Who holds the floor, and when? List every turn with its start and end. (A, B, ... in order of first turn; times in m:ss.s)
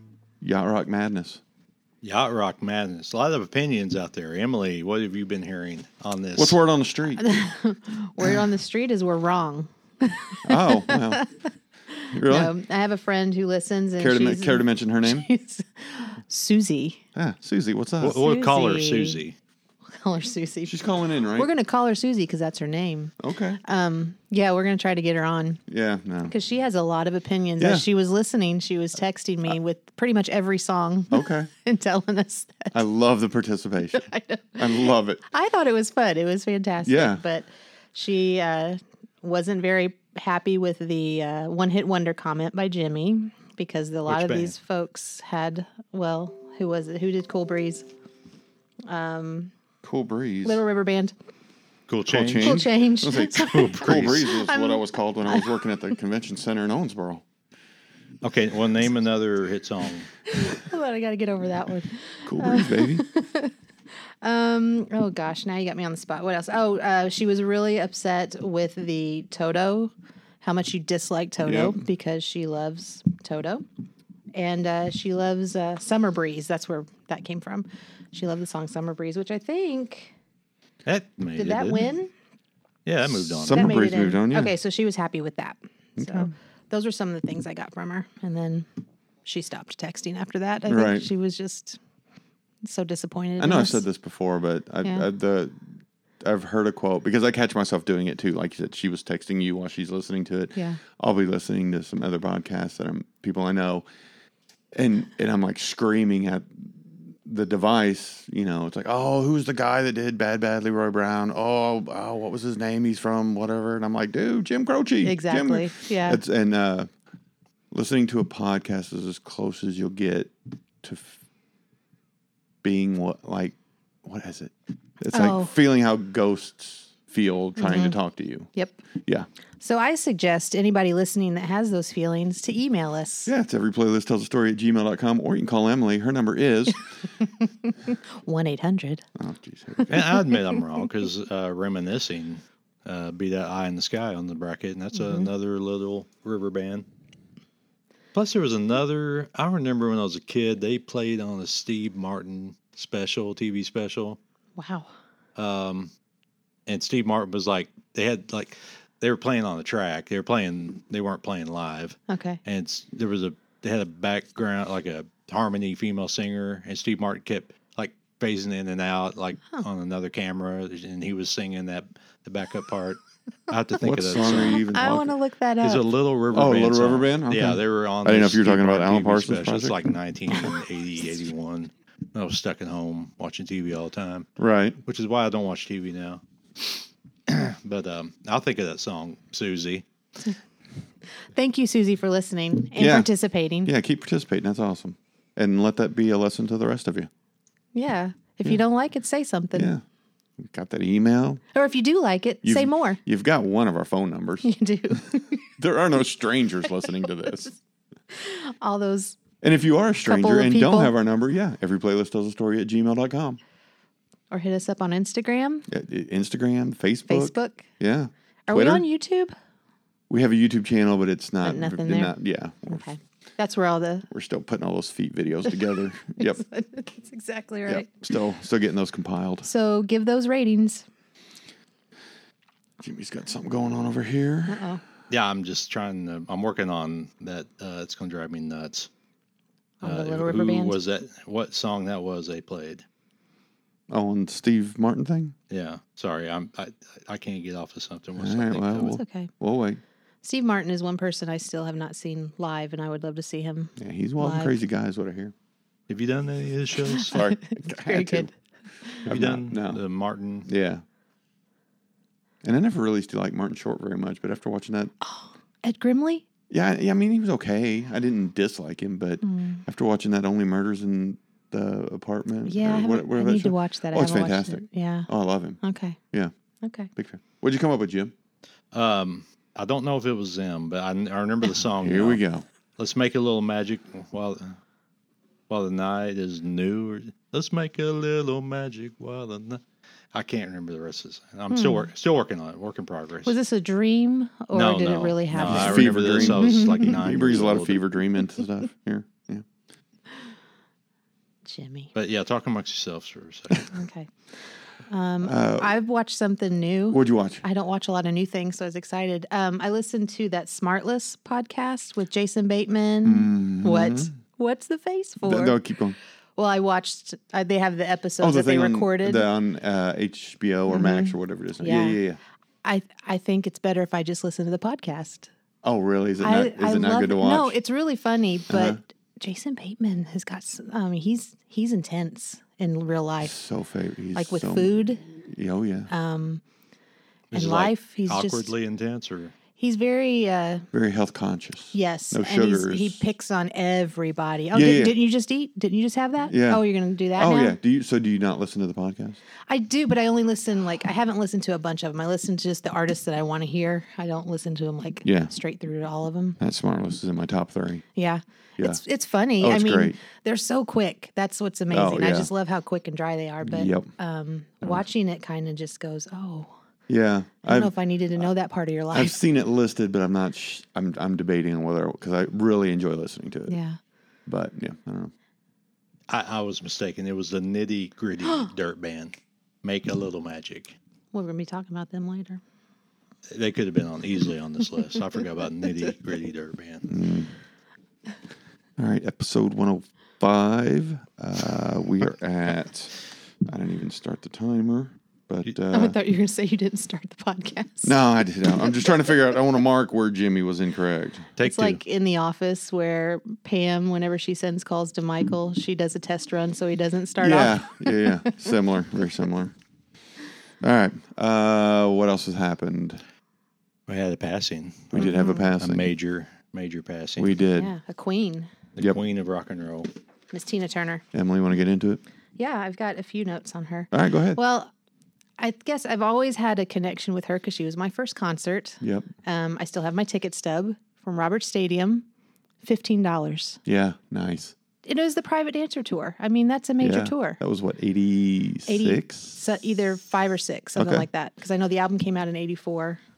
0:00.4-0:01.4 A
0:02.0-0:06.6 B
0:06.3-0:07.4 A
0:07.1-0:17.0 C
0:10.4-0:11.2 A
0:12.1-0:12.5 A
0:14.0-0:15.3 A
0:17.1-0:18.2 A
0:18.0-0:19.4 B
0:18.0-0:19.2 C
0:19.9-0:25.6 C
0:20.6-0:21.5 A
0:23.2-0:23.6 A
0:25.7-0:26.3 A
0:26.3-0:32.8 C
0:27.6-0:27.8 A
0:31.1-0:31.5 A
0:32.7-0:34.0 A
0:33.9-0:47.9 C
0:34.6-0:35.2 A
0:36.8-0:37.2 A
0:44.1-0:44.5 B
0:48.9-0:49.5 C
0:49.8-0:50.6 A
0:50.4-0:51.1 C
0:51.9-0:52.7 B
0:52.1-0:57.2 A
0:52.4-0:55.6 C
0:53.4-0:54.3 B
0:58.2-1:00.1 B
1:00.3-1:13.6 C
1:02.2-1:03.0 A
1:11.4-1:11.8 A
1:14.3-1:20.1 C
1:20.8-1:21.9 B
1:21.4-1:22.1 C
1:22.8-1:23.8 B
1:23.0-1:24.5 A
1:23.5-1:28.7 C
1:26.0-1:26.3 A
1:29.2-1:31.8 C
1:30.7-1:31.1 A
1:32.6-1:33.8 C
1:33.4-1:43.8 A
1:40.5-1:40.8 C
1:44.7-1:56.9 A
1:55.0-1:56.2 C
1:57.7-2:01.2 A
2:02.6-2:08.5 A
2:05.1-2:05.5 C
2:07.6-2:08.0 C
2:09.6-2:13.3 C
2:13.2-2:16.8 A
2:17.2-2:19.0 C
2:19.2-2:20.0 A
2:19.8-2:20.6 C
2:19.9-2:26.8 B
2:24.9-2:25.3 C
2:28.1-2:34.2 B
2:34.6-2:34.9 C
2:35.4-2:35.9 B
2:36.7-2:54.6 B
2:42.1-2:42.4 C
2:53.8-2:55.2 A
2:54.4-2:55.8 C
2:55.6-3:04.3 B
2:56.3-2:59.8 A
3:04.4-3:04.8 A
3:04.8-3:09.8 B
3:11.3-3:13.7 C
3:12.8-3:13.1 A
3:13.6-3:17.1 A
3:17.7-3:19.7 C
3:19.5-3:19.8 A
3:20.4-3:21.4 A
3:21.5-3:23.0 C
3:22.4-3:24.5 A
3:24.4-3:25.5 C
3:25.6-3:27.5 A
3:26.8-3:27.6 C
3:28.1-3:29.2 C
3:29.4-3:33.4 A
3:30.0-3:30.9 C
3:34.3-3:35.6 C
3:35.7-3:38.8 A
3:37.1-3:37.7 C
3:38.5-3:39.3 C
3:40.1-3:42.9 A
3:41.4-3:42.1 C
3:42.7-3:44.0 C
3:44.1-3:46.4 A
3:46.1-3:47.9 C
3:47.7-3:49.5 A
3:49.4-3:50.9 C
3:52.8-3:54.6 A
3:54.5-3:54.8 C
3:55.1-3:58.9 B
3:59.8-4:00.8 C
3:59.8-4:02.8 B
4:03.9-4:05.3 A
4:05.5-4:09.0 B
4:08.2-4:09.8 A
4:08.8-4:09.3 C
4:10.2-4:14.5 C
4:13.8-4:15.3 A
4:15.9-4:17.2 B
4:16.9-4:18.3 C
4:17.1-4:18.3 A
4:19.0-4:19.8 A
4:19.0-4:20.5 B
4:20.4-4:20.8 A
4:22.4-4:24.9 A
4:25.0-4:26.2 C
4:26.5-4:35.6 A
4:29.2-4:29.6 C
4:32.4-4:35.1 C
4:35.6-4:36.0 C
4:36.6-4:36.9 C
4:37.0-4:38.1 A
4:38.7-4:42.2 B
4:41.8-4:42.4 A
4:42.8-4:44.6 B
4:45.5-4:49.6 B
4:50.1-4:53.3 B
4:51.5-4:51.9 C
4:53.2-4:56.9 C
4:54.5-4:57.8 B
4:55.4-4:59.4 A
5:01.4-5:01.9 C
5:01.9-5:03.7 B
5:03.7-5:04.1 C
5:04.9-5:15.6 C
5:05.2-5:05.7 A
5:06.9-5:07.4 A
5:13.0-5:14.1 A
5:15.2-5:16.0 A
5:16.4-5:19.3 C
5:18.2-5:22.2 A
5:20.7-5:22.0 C
5:22.6-5:25.3 C
5:25.6-5:27.6 A
5:26.2-5:33.4 C
5:28.5-5:28.8 A
5:33.2-5:35.9 A
5:34.1-5:35.0 C
5:35.9-5:36.4 C
5:37.3-5:39.3 B
5:37.3-5:38.5 C
5:39.6-5:40.6 C
5:40.7-5:43.0 A
5:41.7-5:47.6 C
5:44.5-5:44.9 A
5:46.3-5:46.6 A
5:47.1-5:49.2 A
5:49.5-5:56.4 C
5:55.0-5:55.3 A
5:56.4-5:57.8 A
5:58.0-6:06.6 C
5:59.4-6:00.0 A
6:01.7-6:02.3 A
6:03.4-6:03.9 A
6:06.9-6:08.3 A
6:07.4-6:09.2 C
6:08.9-6:13.6 A
6:13.5-6:13.8 C
6:14.3-6:15.1 A
6:16.1-6:20.8 B
6:21.1-6:22.4 C
6:23.3-6:26.9 B
6:26.9-6:27.3 A
6:28.8-6:36.0 A
6:35.7-6:37.9 C
6:37.8-6:41.3 A
6:41.4-6:41.8 B
6:41.4-6:48.5 C
6:47.2-6:49.5 A
6:50.6-6:53.0 A
6:53.9-6:57.4 B
6:54.9-6:55.9 A
6:55.0-6:55.5 C
6:57.2-6:57.7 A
6:57.5-6:58.5 C
6:58.8-6:59.9 B
7:00.3-7:01.0 C
7:01.1-7:02.0 A
7:02.4-7:04.7 C
7:03.9-7:04.4 A
7:05.4-7:12.0 C
7:08.8-7:09.1 A
7:12.6-7:13.6 C
7:13.6-7:14.5 A
7:14.8-7:17.4 C
7:16.8-7:19.4 A
7:18.7-7:23.0 C
7:20.8-7:21.1 A